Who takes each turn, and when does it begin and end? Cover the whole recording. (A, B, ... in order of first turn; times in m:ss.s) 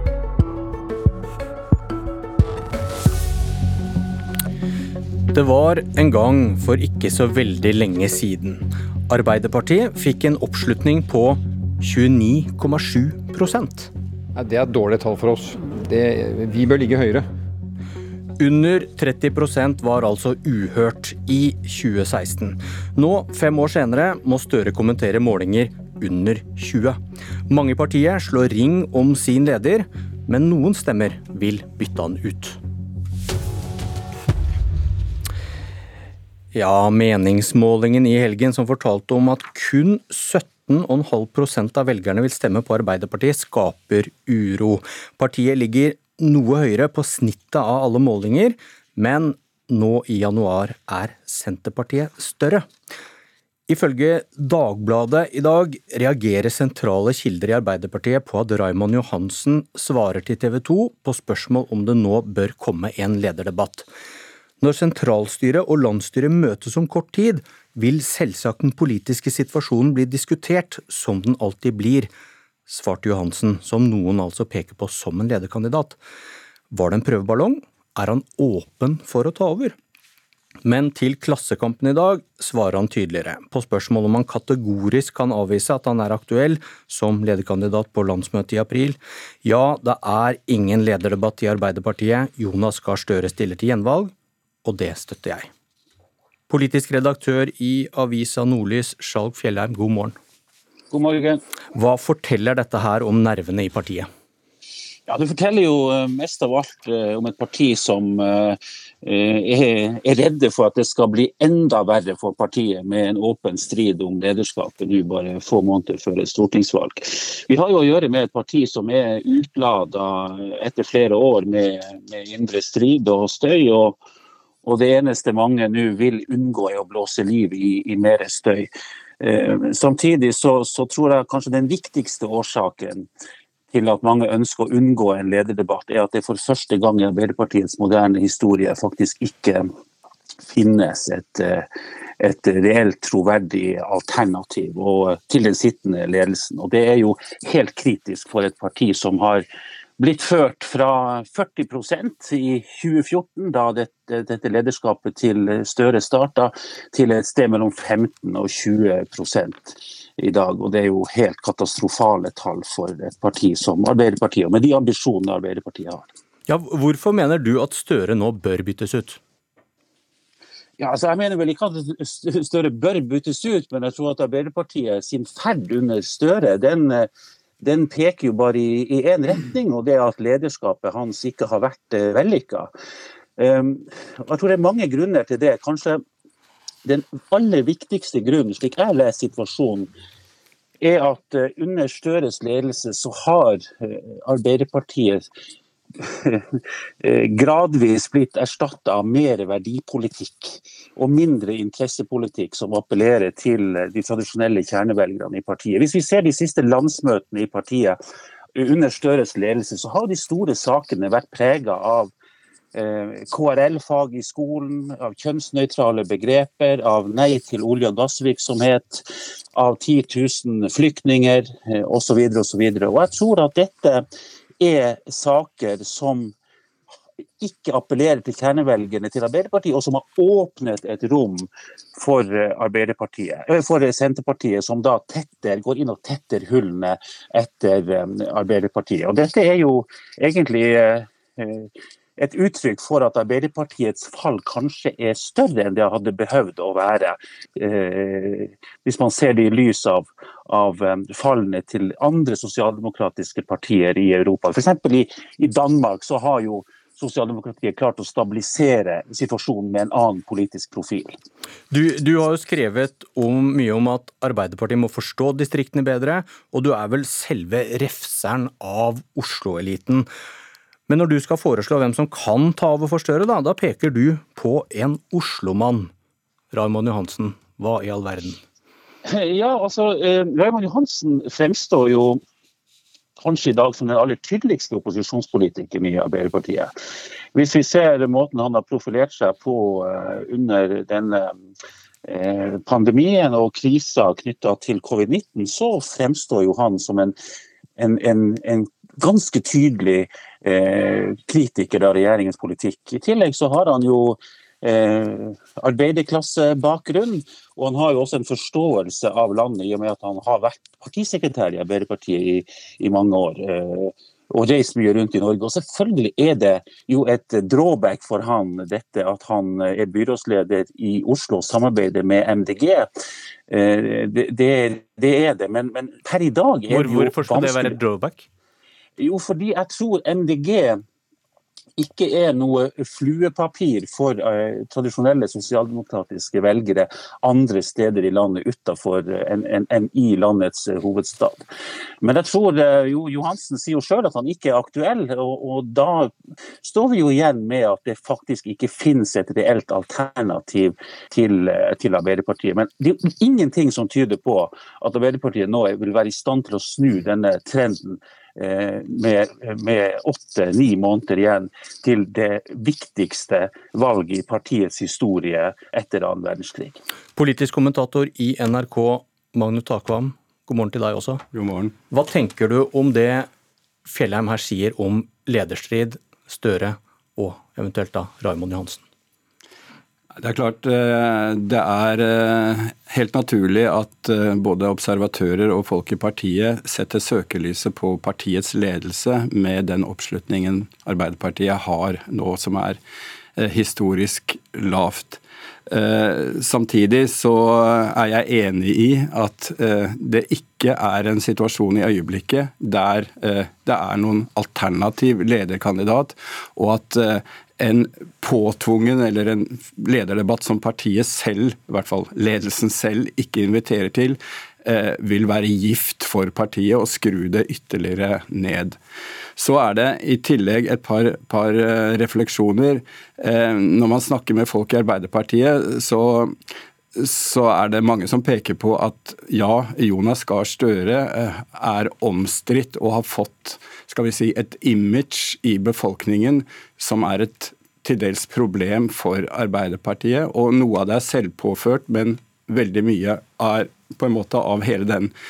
0:05.3-0:13.9 A
0:14.4-0:17.3 B
0:18.4-0:32.6 A
0:36.5-0:52.6 A
0:53.7-1:03.9 A
1:04.6-1:12.1 A
1:12.7-1:16.0 A
1:16.7-1:19.8 A
1:20.6-1:34.1 A
1:34.6-1:35.5 A
1:36.5-1:40.2 A
1:40.9-1:41.4 C
1:41.7-1:44.1 A
1:45.1-2:04.0 C
2:04.6-2:08.7 C
2:09.2-2:13.1 C
2:13.7-2:19.6 C
2:20.5-2:21.7 C
2:22.2-2:29.4 C
2:30.0-2:46.1 C
2:46.5-2:49.2 A
2:50.8-2:57.1 C
2:57.6-3:02.7 C
3:03.4-3:06.0 C
3:06.9-3:09.9 C
3:10.8-3:15.2 C
3:16.0-3:28.0 C
3:28.6-3:32.1 C
3:32.7-3:44.0 C
3:44.6-3:46.3 C
3:47.4-4:21.1 C
4:21.7-4:30.1 A
4:30.9-4:35.9 A
4:36.5-4:38.4 A
4:39.0-4:42.2 C
4:43.2-4:46.7 C
4:47.3-4:51.4 C
4:52.1-4:57.2 C
4:57.8-5:22.9 C
5:23.5-5:27.8 C
5:26.7-5:28.2 A
5:29.0-5:30.8 C
5:31.8-5:41.4 C
5:42.0-6:06.8 C
6:07.2-6:11.2 A
6:11.3-6:11.7 D
6:11.9-6:13.3 A
6:13.9-6:18.8 A
6:20.2-6:32.8 D
6:33.4-6:58.8 D
6:59.4-7:06.4 D
7:07.0-7:25.1 D